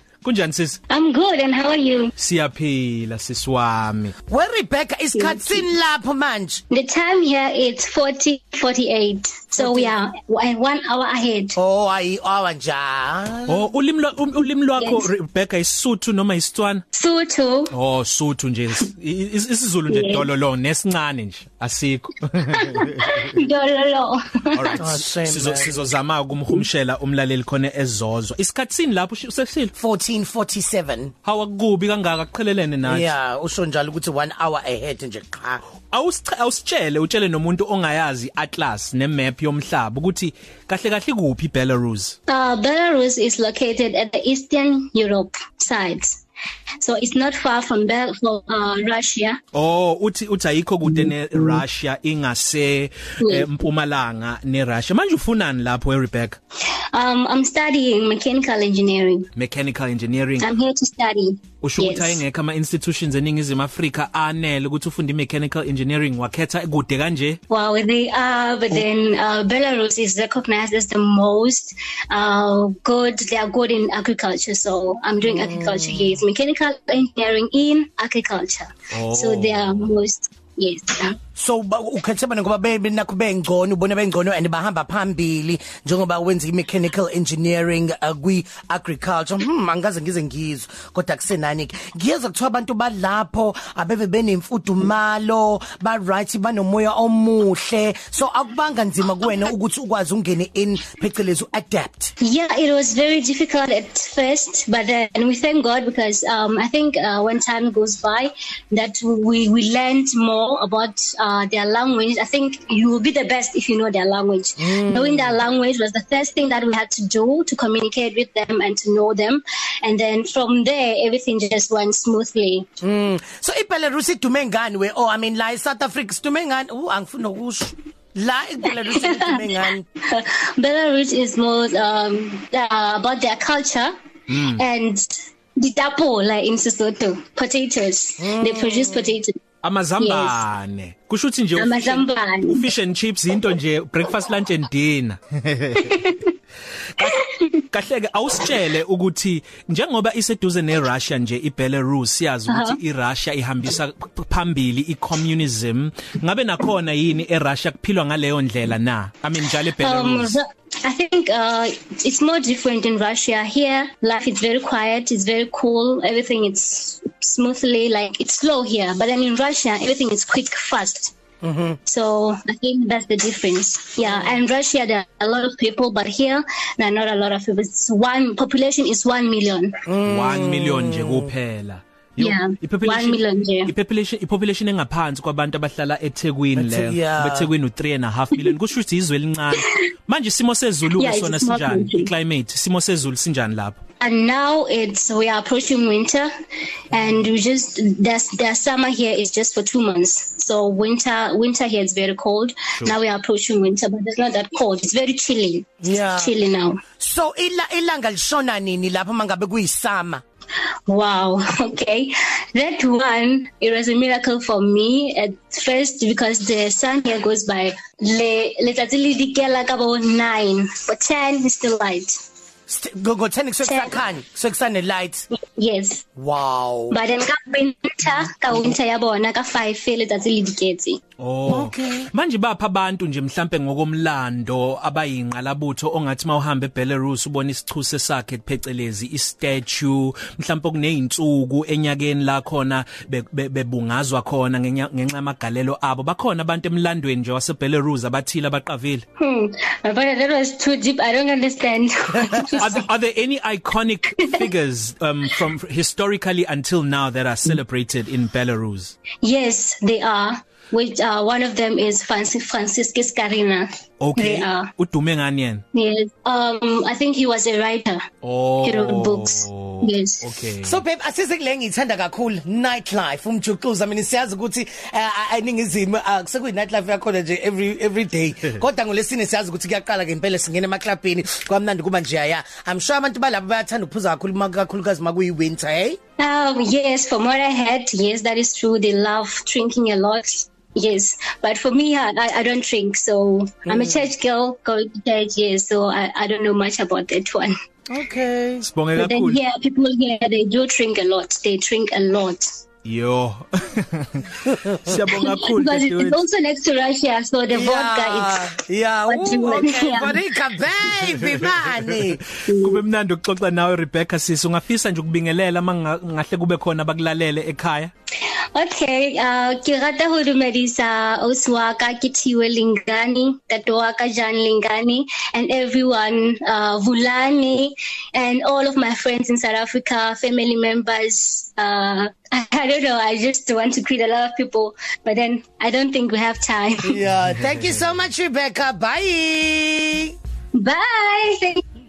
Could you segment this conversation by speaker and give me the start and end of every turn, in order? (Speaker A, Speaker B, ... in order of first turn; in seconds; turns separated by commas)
Speaker A: 0.2-0.8, Speaker B: 0.9-2.1, Speaker A: 2.2-4.1, Speaker C: 4.3-6.6, Speaker B: 5.1-5.7, Speaker B: 6.7-11.6, Speaker C: 9.6-9.9, Speaker C: 11.6-13.6, Speaker A: 13.5-16.8, Speaker B: 14.8-15.1, Speaker B: 16.9-17.7, Speaker A: 17.7-23.2, Speaker B: 19.9-20.3, Speaker B: 22.5-24.8, Speaker A: 24.5-29.7, Speaker C: 24.8-25.9, Speaker C: 29.8-31.1, Speaker A: 31.2-33.1, Speaker C: 32.8-35.6, Speaker A: 35.9-42.1, Speaker B: 42.3-46.1, Speaker B: 46.8-49.4, Speaker A: 49.5-56.4, Speaker B: 53.2-53.5, Speaker B: 56.9-59.3, Speaker A: 59.3-60.5, Speaker B: 60.4-62.2, Speaker A: 61.6-67.4, Speaker B: 67.5-81.2, Speaker C: 75.2-76.2, Speaker A: 78.9-79.9, Speaker C: 81.4-102.1, Speaker B: 102.2-122.7, Speaker C: 114.6-115.4, Speaker C: 122.8-129.8, Speaker B: 128.9-129.4, Speaker B: 130.0-133.9, Speaker A: 134.3-134.6, Speaker B: 134.5-139.4, Speaker C: 138.2-139.1, Speaker A: 139.6-146.1, Speaker B: 140.0-140.4, Speaker B: 141.6-142.7, Speaker B: 145.8-146.3, Speaker B: 147.0-147.6, Speaker A: 147.7-160.3, Speaker B: 152.5-152.8, Speaker B: 159.7-171.1, Speaker C: 171.4-171.8, Speaker B: 171.8-179.8, Speaker C: 174.0-174.4, Speaker C: 179.8-181.3, Speaker A: 180.0-193.8, Speaker B: 182.2-183.7, Speaker C: 186.6-187.5, Speaker B: 190.9-192.1, Speaker B: 194.0-196.3, Speaker B: 196.9-206.8, Speaker C: 205.8-206.3, Speaker C: 207.0-210.2, Speaker B: 210.9-222.1, Speaker C: 222.7-225.3, Speaker B: 223.6-224.0, Speaker B: 225.4-226.0, Speaker C: 226.2-227.0, Speaker B: 226.9-231.0, Speaker A: 231.2-249.0, Speaker C: 231.5-232.1, Speaker B: 249.2-252.8, Speaker A: 252.6-258.9, Speaker B: 259.2-264.7, Speaker A: 264.0-265.6, Speaker B: 265.7-268.1, Speaker A: 268.2-270.8, Speaker B: 268.6-270.2, Speaker C: 270.6-286.0, Speaker B: 286.2-297.5, Speaker C: 293.7-294.1, Speaker C: 297.9-298.7, Speaker A: 298.6-299.4, Speaker B: 298.9-302.4, Speaker A: 302.8-306.2, Speaker B: 305.1-308.5, Speaker C: 307.5-312.2, Speaker B: 309.1-310.1, Speaker A: 311.9-317.9, Speaker B: 312.4-312.8, Speaker B: 318.5-337.0, Speaker C: 336.8-340.1, Speaker B: 340.5-341.6